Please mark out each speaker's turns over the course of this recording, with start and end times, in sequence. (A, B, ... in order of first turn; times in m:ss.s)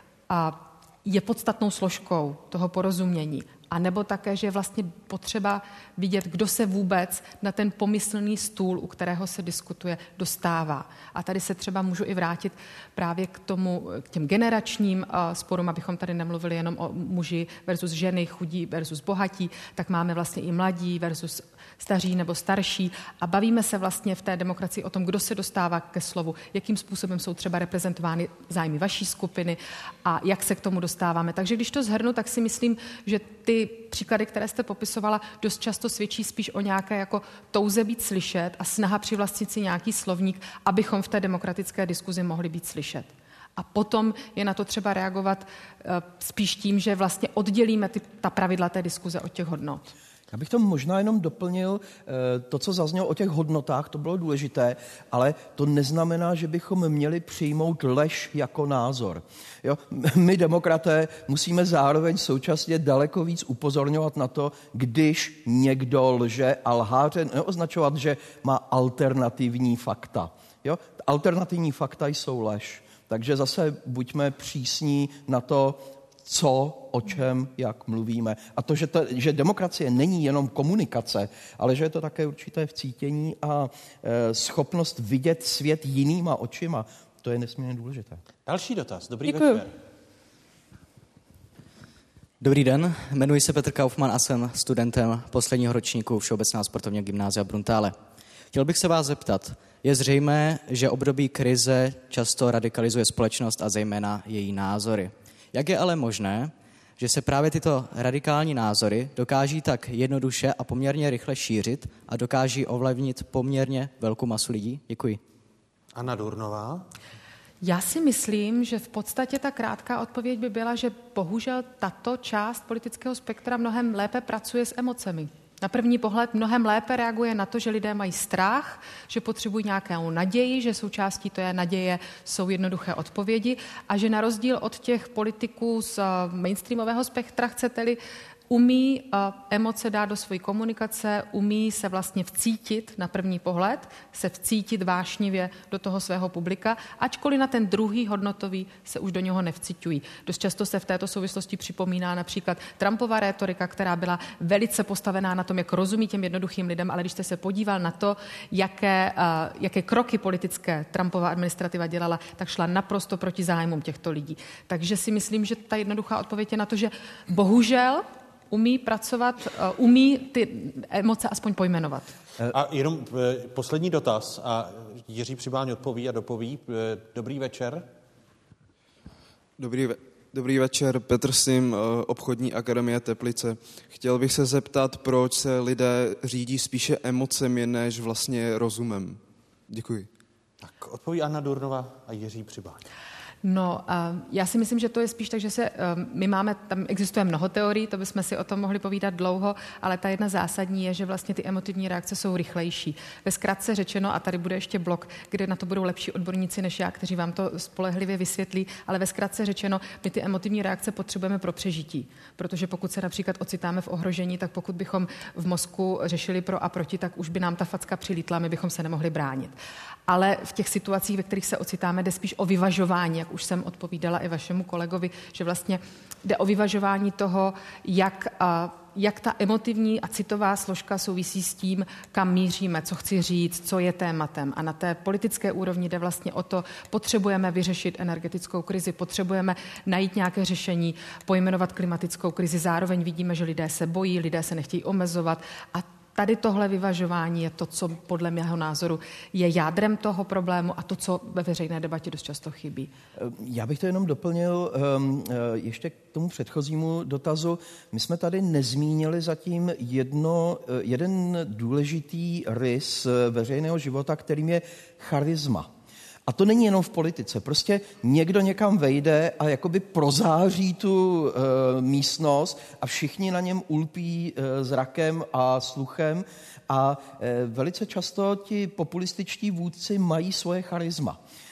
0:00.3-0:49.9 A
0:50.3-1:28.2 B
1:28.5-1:29.7 C
1:29.3-1:29.6 D
1:32.4-1:38.0 D
1:38.5-1:55.2 D
1:56.0-1:56.9 C
1:57.6-2:18.0 A
2:18.5-2:52.1 A
2:52.5-2:57.9 C
2:59.6-3:10.1 E
3:10.6-3:12.8 C
3:13.4-3:39.6 A
3:40.1-4:12.9 A
4:13.2-4:25.7 B
4:26.3-4:41.2 B